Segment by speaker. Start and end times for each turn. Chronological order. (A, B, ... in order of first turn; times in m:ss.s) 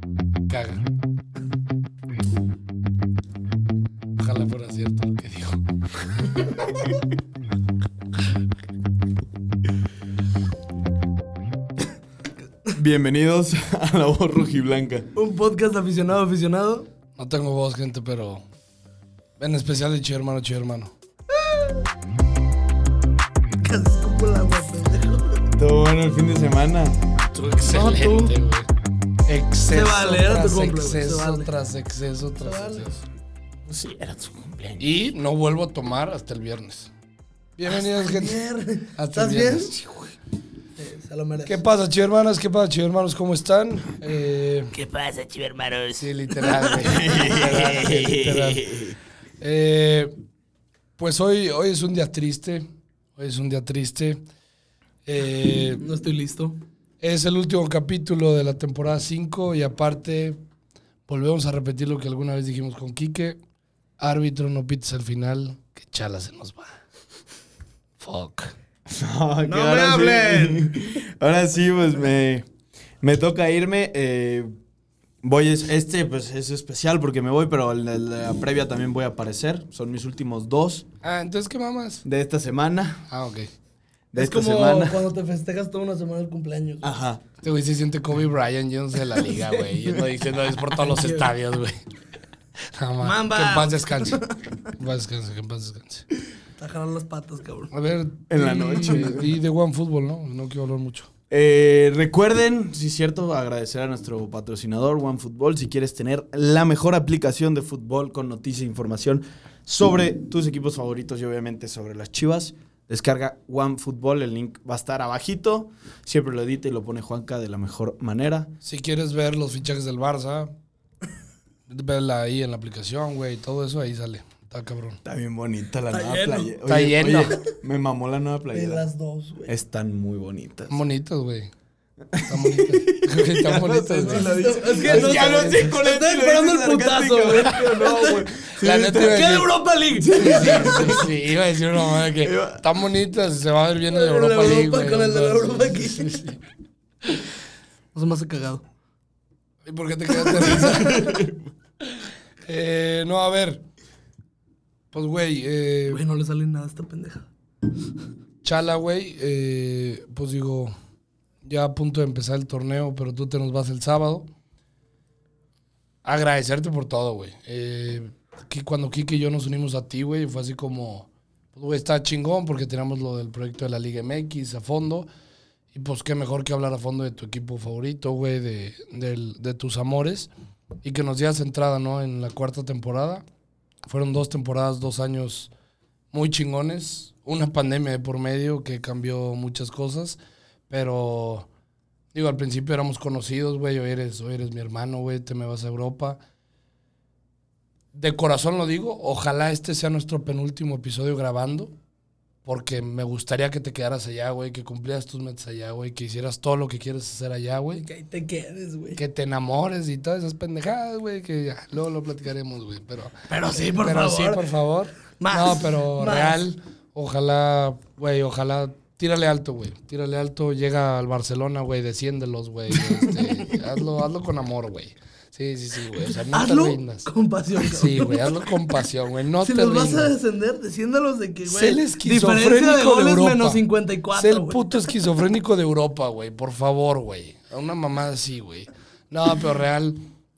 0:00.5-0:00.9 A
0:04.2-0:05.6 A
0:12.7-0:15.1 B
0:15.2-0:16.9 C
0:17.2-0:18.5 A
0:19.4-0:20.9 A
0:23.6-0:25.4 C
0:25.5-0:27.0 B
0:27.3-0:28.7 A
0:27.7-0:28.4 C
0:29.3-0:33.0 A
0:29.7-0:31.5 C
0:32.4-0:32.9 C
0:33.7-0:34.9 B
0:34.8-0:36.9 A
0:37.6-0:38.4 A
0:37.6-0:39.8 C
0:39.0-0:39.8 A
0:40.8-0:41.6 C
0:41.4-0:44.8 A
0:44.8-0:46.0 C
0:46.0-0:48.7 A
0:46.5-0:47.6 C
0:46.8-0:49.0 B
0:49.4-0:50.1 A
0:51.0-0:54.2 A
0:55.0-0:55.8 A
0:55.8-0:56.6 C
0:57.0-1:00.4 A
1:01.1-1:03.4 A
1:04.0-1:06.8 A
1:08.0-1:08.5 A
1:08.9-1:12.5 B
1:09.4-1:11.0 C
1:13.0-1:14.5 B
1:15.2-1:20.8 B
1:21.0-1:22.0 A
1:22.0-1:23.0 B
1:23.1-1:23.5 A
1:24.1-1:25.0 B
1:24.2-1:26.9 C
1:26.8-1:27.2 B
1:27.4-1:31.8 A
1:29.3-1:29.7 C
1:30.8-1:31.3 C
1:32.7-1:34.2 A
1:33.0-1:34.4 C
1:34.7-1:36.1 A
1:36.6-1:37.7 C
1:37.7-1:41.1 A
1:38.3-1:39.3 B
1:41.3-1:58.5 B
1:58.6-2:00.5 A
2:01.7-2:05.0 A
2:05.0-2:08.9 B
2:05.9-2:06.5 C
2:06.7-2:07.4 A
2:08.5-2:09.5 C
2:09.5-2:10.8 B
2:10.7-2:11.5 A
2:12.1-2:19.2 B
2:12.2-2:15.6 A
2:14.0-2:21.0 C
2:18.6-2:19.5 A
2:20.0-2:21.1 B
2:20.2-2:26.4 A
2:22.0-2:22.6 B
2:23.9-2:26.2 C
2:27.9-2:28.6 C
2:29.6-2:31.2 A
2:30.2-2:31.0 C
2:30.5-2:31.4 B
2:32.4-2:33.6 A
2:34.9-2:36.0 A
2:35.9-2:37.3 C
2:38.4-2:40.7 A
2:41.4-2:44.3 A
2:46.0-2:55.1 A
2:55.7-3:00.3 A
3:00.8-3:03.2 A
3:03.9-3:05.5 A
3:06.1-3:10.2 A
3:10.7-3:11.5 A
3:12.1-3:16.2 A
3:17.9-3:21.7 A
3:22.4-3:27.8 A
3:27.7-3:29.0 C
3:29.0-3:50.1 A
3:33.3-3:34.5 C
3:35.2-3:36.4 C
3:46.0-3:48.6 C
3:49.4-3:54.7 C
3:51.4-3:53.6 A
3:54.1-4:00.1 A